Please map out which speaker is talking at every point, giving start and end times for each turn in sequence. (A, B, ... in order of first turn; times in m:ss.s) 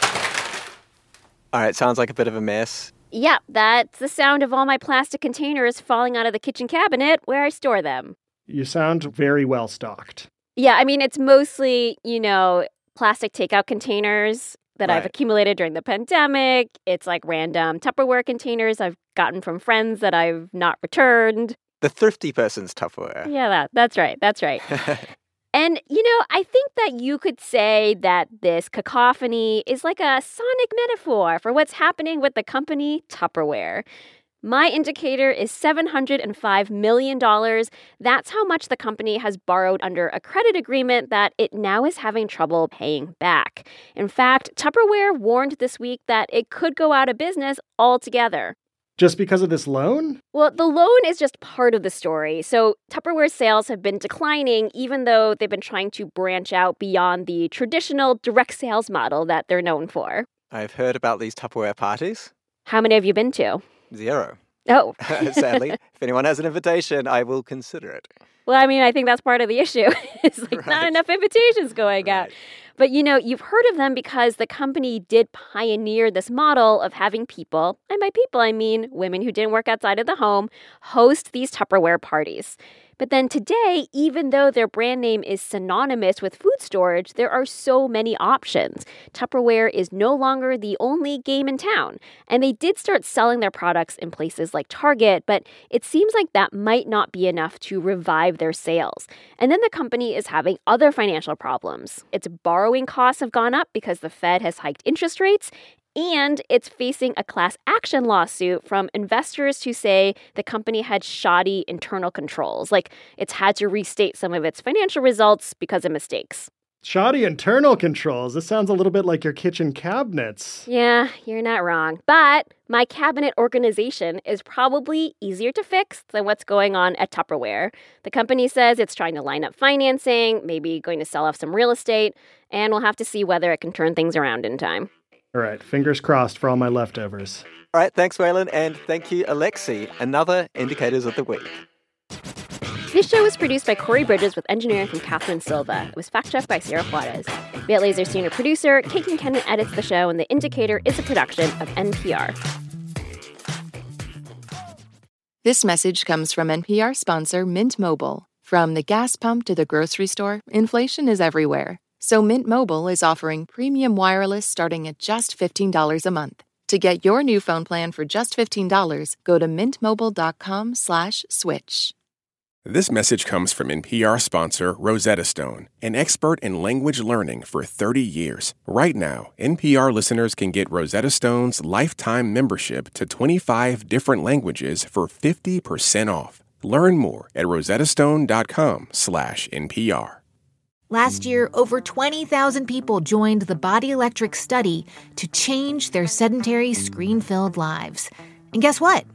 0:01.5-0:02.9 A
0:03.1-0:08.2 B
0:08.5-0:10.3 C
0:10.6-0:21.6 B
0:14.8-0:15.1 A
0:21.8-0:23.3 A
0:23.2-0:24.7 B
0:25.5-0:33.8 B
0:34.4-0:48.6 B
0:49.0-0:50.2 C
0:50.3-1:00.3 B
1:00.5-1:02.3 A
1:02.7-1:03.6 B
1:03.9-1:04.4 A
1:04.7-1:05.6 B
1:05.1-1:08.1 A
1:08.5-1:56.5 B
1:10.5-1:11.0 A
1:12.0-1:12.3 A
1:56.8-2:00.7 C
2:00.7-2:14.9 B
2:15.3-2:17.4 C
2:17.7-2:21.5 A
2:22.9-2:32.4 B
2:35.4-2:51.9 D
2:52.6-3:10.2 E
3:10.9-3:19.1 F